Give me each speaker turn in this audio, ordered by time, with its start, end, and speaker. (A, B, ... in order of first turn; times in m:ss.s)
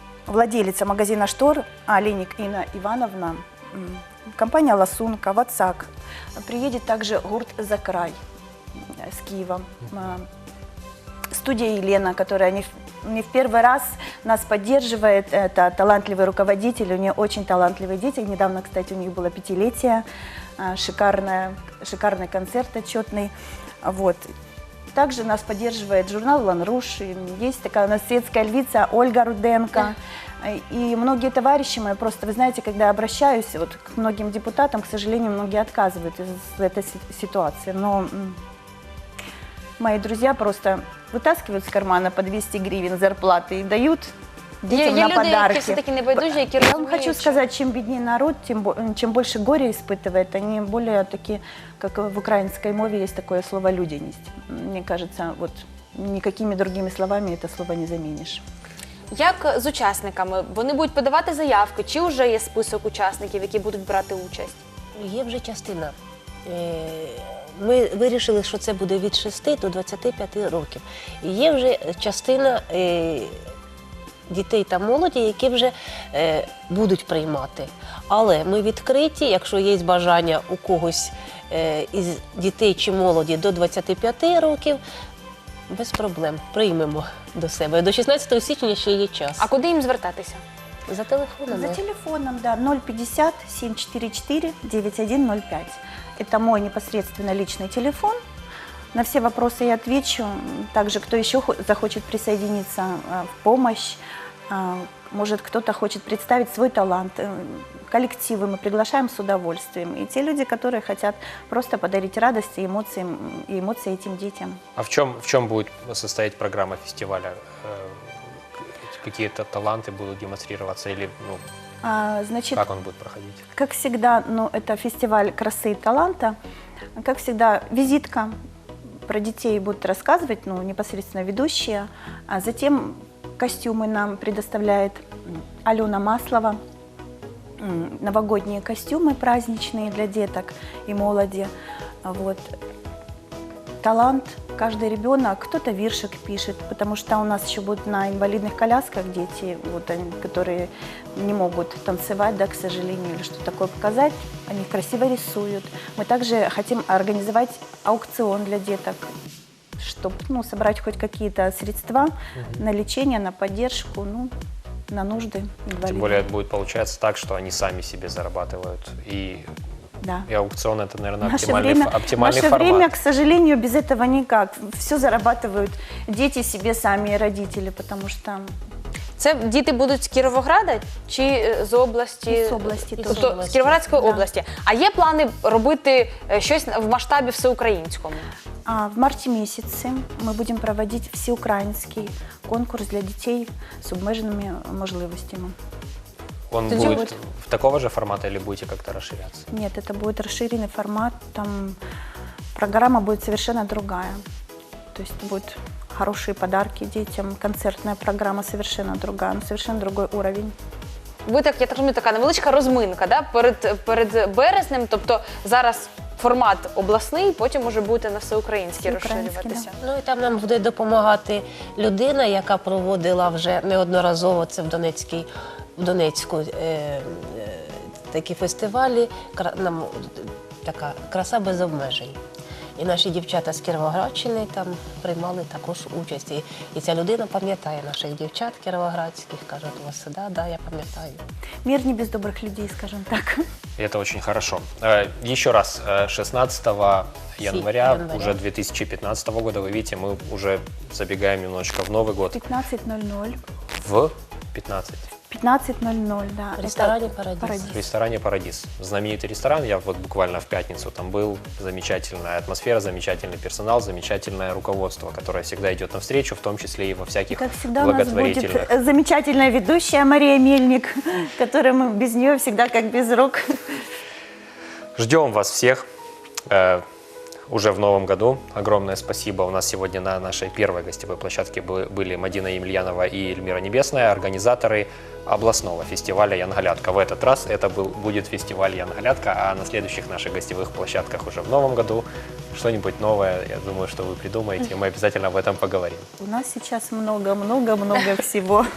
0:00.3-0:08.2 A
0:09.0-0:10.3 A
0:11.3-0:20.0 A
0:20.6-0:24.2 A
0:24.9-0:38.4 A
0:39.8-0:58.4 A
0:44.7-0:47.4 B
0:59.1-1:04.6 B
1:05.0-1:05.9 C
1:06.4-1:13.3 C
1:14.3-1:24.8 C
1:25.7-1:29.5 C
1:29.4-1:30.4 B
1:30.9-1:31.8 C
1:31.5-1:38.2 A
1:38.9-1:54.6 A
1:54.8-2:01.4 D
2:01.8-2:02.6 A
2:02.5-2:03.4 D
2:03.5-2:06.4 A
2:07.0-2:08.3 A
2:09.0-2:16.6 A
2:17.6-2:21.5 A
2:22.0-2:22.5 A
2:23.8-2:39.1 A
2:39.8-2:44.3 A
2:42.4-2:42.6 D
2:44.9-2:46.3 A
2:45.8-2:49.5 D
2:50.0-2:50.3 A
2:50.2-2:52.9 D
2:51.2-2:58.5 A
2:59.2-3:08.2 B
3:02.3-3:04.3 A
3:03.0-3:03.9 C
3:08.6-3:15.5 A
3:16.5-3:19.4 D
3:16.7-3:17.0 B
3:16.7-3:17.1 A
3:19.5-3:21.8 A
3:22.5-3:24.2 A
3:24.9-3:30.5 A
3:31.2-3:39.7 B
3:38.8-3:39.7 A
3:39.8-3:52.2 C
3:52.8-4:01.2 C
4:01.6-4:03.4 A
4:03.8-4:12.4 D
4:07.4-4:08.4 C
4:12.3-4:13.4 A
4:13.8-4:15.0 D
4:15.3-4:17.8 A
4:16.6-4:17.7 C
4:17.6-4:28.7 D
4:27.3-4:33.8 A
4:35.0-4:35.8 D
4:36.5-4:36.8 D
4:37.5-4:56.1 D
4:56.2-4:58.6 A